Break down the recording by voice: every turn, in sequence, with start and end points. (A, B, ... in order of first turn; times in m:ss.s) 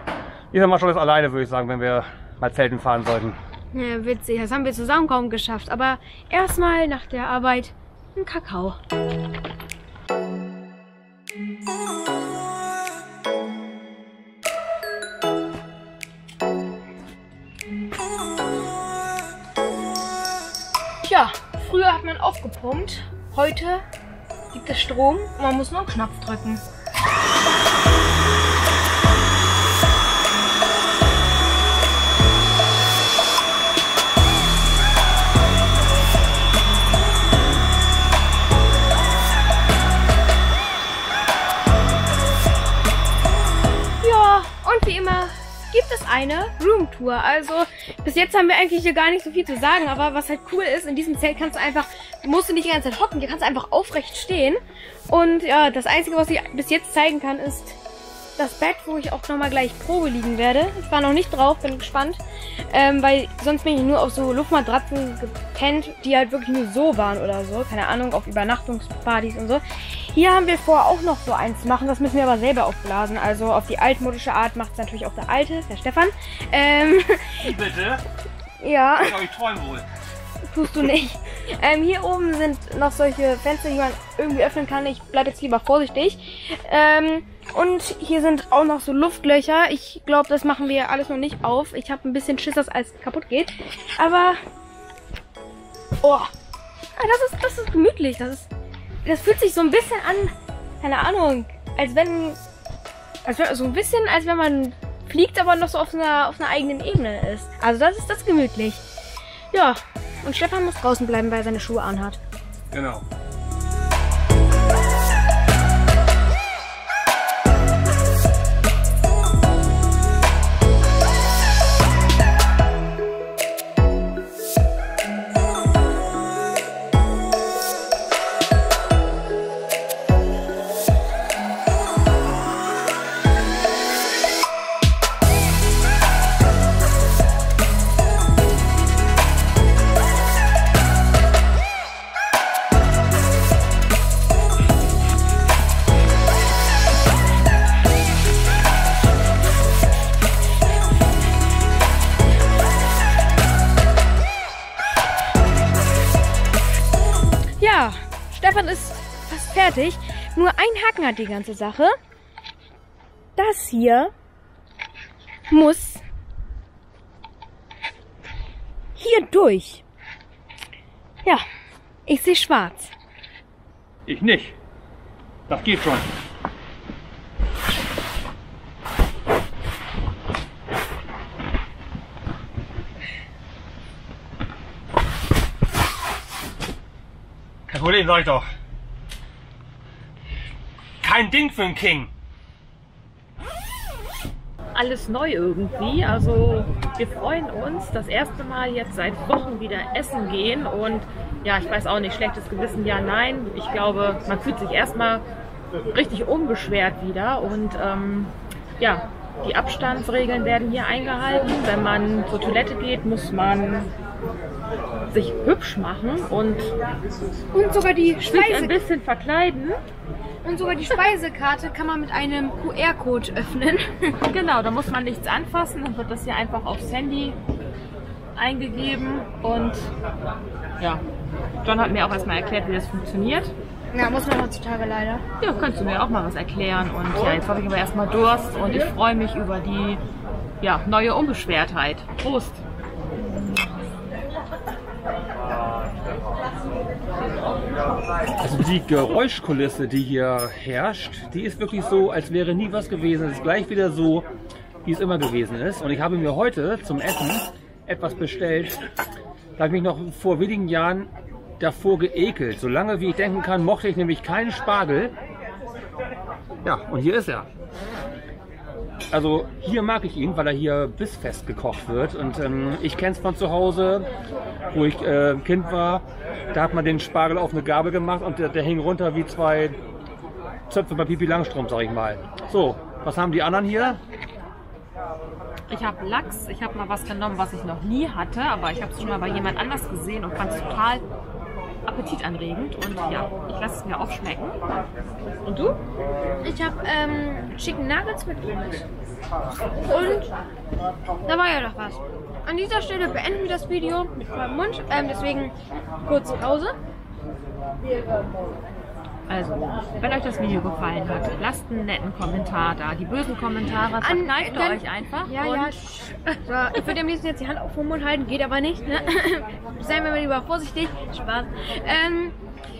0:00.5-0:03.4 A
0:03.7-0:08.8 B
0:21.0-0:23.8 B
0:24.5-0:26.6 B
0:44.0-0:57.8 B
0:58.4-1:17.5 B
1:17.4-1:18.0 A
1:18.6-1:19.2 B
1:19.0-1:19.9 A
1:20.5-1:34.4 B
1:36.0-1:36.3 B
1:37.0-1:38.5 B
1:39.0-1:42.4 B
1:43.2-1:48.8 B
1:49.5-1:52.2 B
1:52.7-1:53.0 A
2:37.6-2:41.9 B
2:43.4-2:44.1 B
2:45.5-2:46.0 B
2:49.0-2:49.8 B
2:52.1-2:52.9 B
2:54.0-2:54.6 A
2:55.5-2:56.1 A
3:07.7-3:08.4 A
3:11.0-3:12.1 A
3:14.7-3:25.2 C
3:25.9-3:33.9 C
3:35.1-3:36.7 C
3:37.5-3:38.8 B
3:38.2-3:39.8 C
3:40.4-3:44.2 B
3:44.3-3:47.4 C
3:48.4-3:49.9 C
3:51.6-3:53.5 C
3:53.9-3:55.2 B
3:55.4-4:00.0 C
4:00.6-4:02.6 C
4:08.4-4:14.3 A
4:14.8-4:18.8 A
4:19.6-4:25.1 A
4:26.6-4:27.5 A
4:29.1-4:34.1 A
4:34.7-4:39.8 A
4:40.7-4:44.0 A
4:45.7-4:51.0 C
4:51.8-4:54.6 C
4:55.4-4:55.8 C
4:56.4-4:58.9 B
4:59.9-5:00.3 B
5:01.2-5:05.5 B
5:06.0-5:06.8 B
5:09.3-5:15.8 C
5:14.0-5:22.4 B